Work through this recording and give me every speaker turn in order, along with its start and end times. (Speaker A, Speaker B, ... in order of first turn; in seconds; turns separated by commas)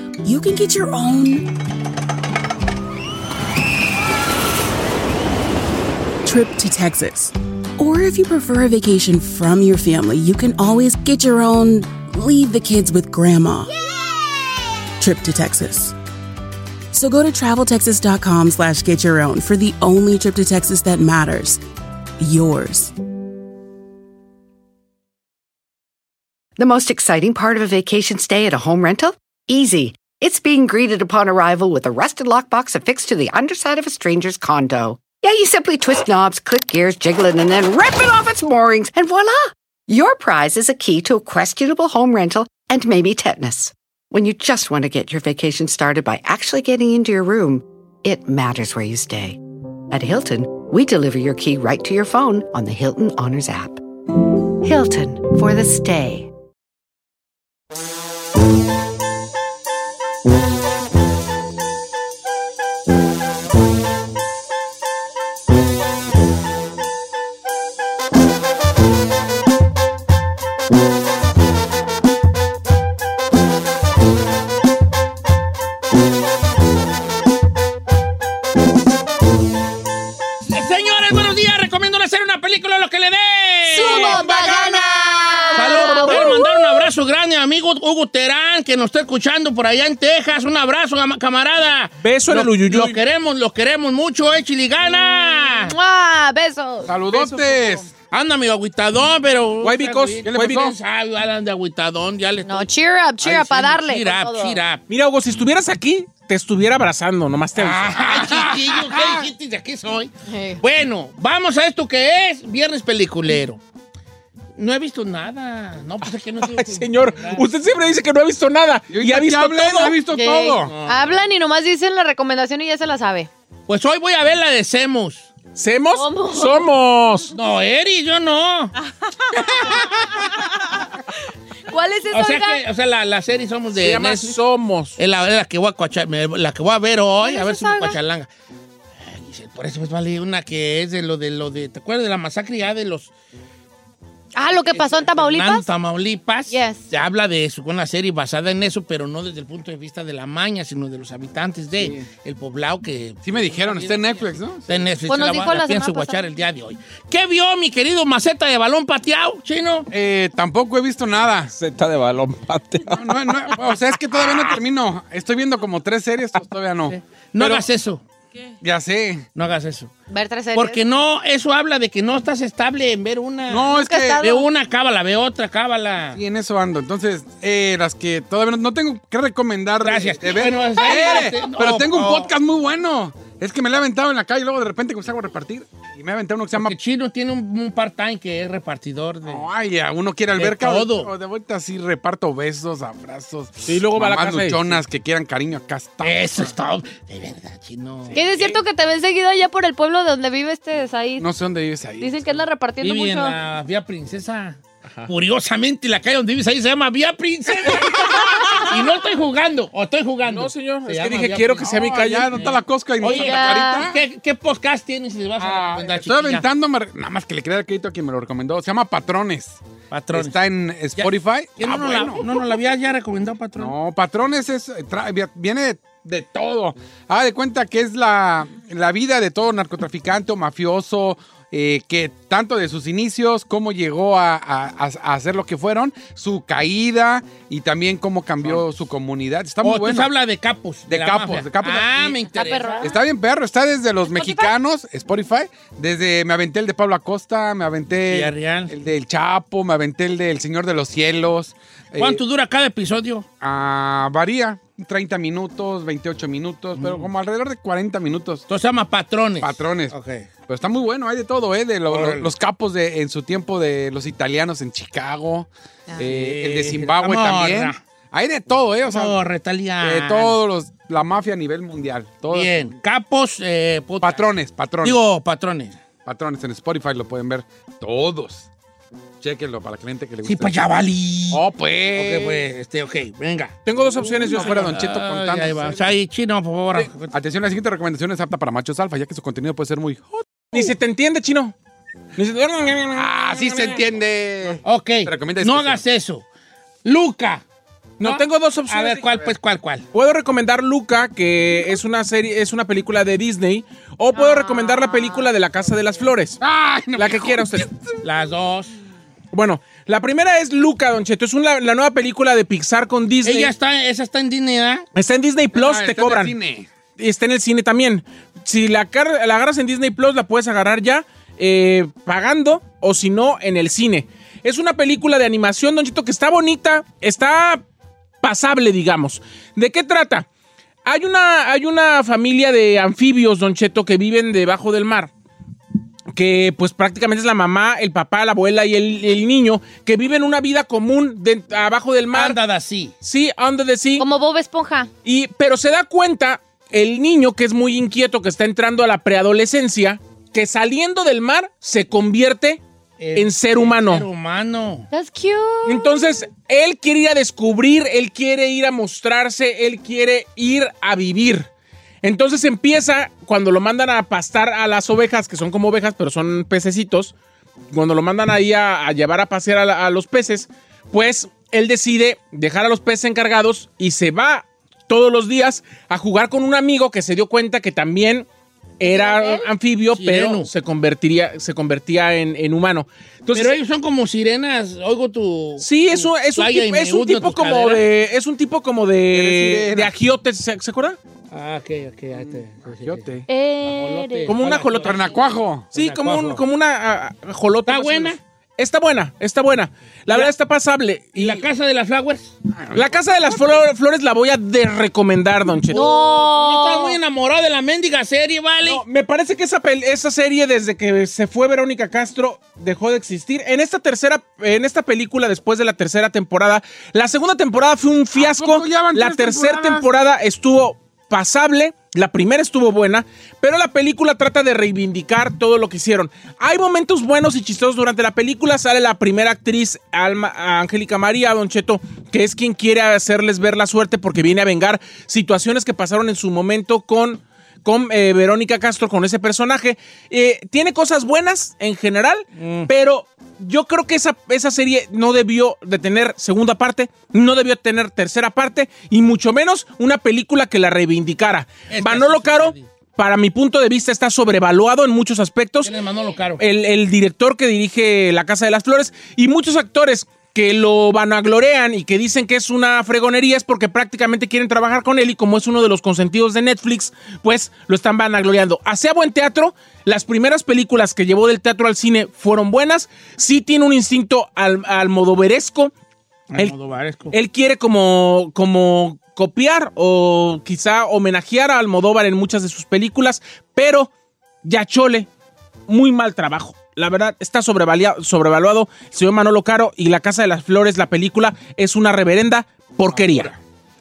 Speaker A: 0.2-1.6, Speaker A: 6.2-13.7, Speaker A: 15.0-15.9, Speaker A: 16.9-21.6, Speaker A: 22.2-22.9, Speaker B: 26.6-53.8, Speaker B: 54.6-56.3, Speaker C: 80.5-84.2, Speaker D: 83.7-86.9, Speaker E: 83.8-86.2, Speaker C: 85.5-95.7, Speaker F: 92.0-93.0, Speaker D: 95.7-97.0, Speaker E: 96.8-97.9, Speaker F: 97.1-97.7, Speaker C: 98.1-102.7, Speaker F: 99.6-100.7, Speaker E: 100.2-100.7, Speaker D: 102.5-104.6, Speaker C: 103.2-104.8, Speaker F: 104.9-107.9, Speaker C: 107.5-113.6, Speaker E: 108.0-109.3, Speaker D: 110.3-110.6, Speaker C: 114.5-117.5, Speaker F: 116.4-120.0, Speaker E: 118.9-120.7, Speaker C: 120.1-120.9, Speaker D: 120.8-123.3, Speaker C: 123.7-125.3, Speaker F: 125.5-127.3, Speaker D: 125.9-126.7, Speaker C: 127.3-128.7, Speaker D: 129.6-130.3, Speaker D: 131.7-132.6, Speaker C: 132.1-134.4, Speaker F: 133.7-135.0, Speaker C: 134.9-138.3, Speaker D: 137.2-138.0, Speaker C: 139.0-143.1, Speaker D: 144.3-145.7, Speaker C: 144.7-159.9, Speaker D: 146.5-146.8, Speaker E: 151.8-152.1, Speaker E: 153.2-154.8, Speaker D: 155.1-156.2, Speaker E: 159.9-161.5, Speaker F: 161.5-163.5, Speaker E: 162.9-167.7, Speaker C: 166.9-168.0, Speaker E: 168.6-169.2, Speaker C: 169.3-169.9, Speaker D: 170.1-170.8, Speaker C: 170.5-176.2, Speaker E: 173.5-174.2, Speaker D: 173.7-174.4, Speaker E: 176.1-186.7, Speaker C: 179.8-182.3, Speaker C: 186.5-189.4, Speaker E: 189.2-196.2, Speaker C: 190.4-191.1, Speaker F: 193.6-194.8, Speaker C: 196.0-198.2, Speaker D: 198.1-201.3, Speaker E: 201.2-202.2, Speaker D: 202.0-203.3, Speaker C: 202.8-216.4, Speaker F: 210.2-212.4, Speaker E: 211.7-214.0, Speaker D: 213.0-213.9, Speaker E: 215.4-219.6, Speaker C: 219.9-220.4, Speaker E: 220.1-222.3, Speaker C: 221.0-223.7, Speaker E: 223.6-240.1, Speaker C: 239.6-242.8, Speaker E: 240.9-242.2, Speaker D: 242.3-243.0, Speaker E: 242.8-252.2, Speaker D: 244.1-244.5, Speaker C: 248.1-248.7, Speaker C: 251.9-253.2, Speaker E: 253.4-258.4, Speaker C: 256.8-257.1, Speaker C: 258.5-260.3, Speaker E: 259.4-259.9, Speaker E: 260.5-269.2, Speaker C: 261.9-262.3, Speaker C: 266.0-267.8, Speaker C: 268.9-270.4, Speaker E: 269.8-272.7, Speaker C: 272.3-274.3, Speaker E: 274.0-275.0, Speaker C: 274.8-275.8, Speaker E: 276.0-278.5, Speaker E: 279.2-280.6, Speaker C: 280.2-281.4, Speaker E: 281.3-282.4, Speaker C: 281.9-287.1, Speaker F: 283.6-284.6, Speaker E: 284.1-285.8, Speaker E: 287.1-290.6, Speaker F: 290.5-291.5, Speaker F: 292.1-293.8, Speaker E: 292.9-295.8, Speaker C: 294.6-296.2, Speaker C: 296.8-297.4, Speaker F: 298.0-299.1, Speaker C: 298.0-299.8, Speaker F: 299.9-306.4, Speaker D: 304.1-305.3, Speaker E: 306.4-307.8, Speaker F: 306.9-307.7, Speaker C: 308.0-308.7, Speaker F: 309.3-313.5, Speaker C: 313.2-314.8, Speaker F: 314.9-316.3, Speaker E: 315.5-316.7, Speaker F: 317.0-327.6, Speaker F: 328.2-330.3, Speaker F: 330.8-335.1, Speaker F: 336.1-342.4, Speaker C: 342.1-342.9, Speaker F: 343.0-344.1, Speaker D: 344.0-344.9, Speaker F: 345.0-352.6, Speaker C: 353.0-354.9, Speaker F: 353.1-354.1, Speaker D: 354.9-356.2, Speaker F: 355.6-361.5, Speaker F: 362.0-367.1, Speaker F: 367.7-378.3, Speaker F: 378.8-383.6, Speaker D: 378.8-379.5, Speaker C: 379.9-380.5, Speaker C: 383.3-387.8, Speaker F: 385.6-391.0, Speaker E: 389.1-389.9, Speaker C: 391.3-393.1, Speaker E: 392.1-393.2, Speaker D: 393.3-394.3, Speaker C: 393.6-395.1, Speaker F: 394.3-395.0, Speaker E: 394.8-395.7, Speaker C: 395.7-396.4, Speaker F: 395.7-401.4, Speaker C: 397.7-398.2, Speaker C: 401.1-402.3, Speaker E: 402.5-403.6, Speaker F: 402.7-405.9, Speaker D: 405.7-407.0, Speaker C: 405.7-408.8, Speaker F: 408.6-455.7, Speaker E: 418.1-419.8, Speaker C: 442.4-442.7, Speaker C: 451.7-452.7, Speaker C: 455.6-456.4, Speaker F: 456.4-475.7, Speaker C: 476.3-477.2, Speaker F: 477.1-483.9, Speaker F: 484.4-485.1, Speaker F: 485.7-493.3, Speaker E: 492.9-493.4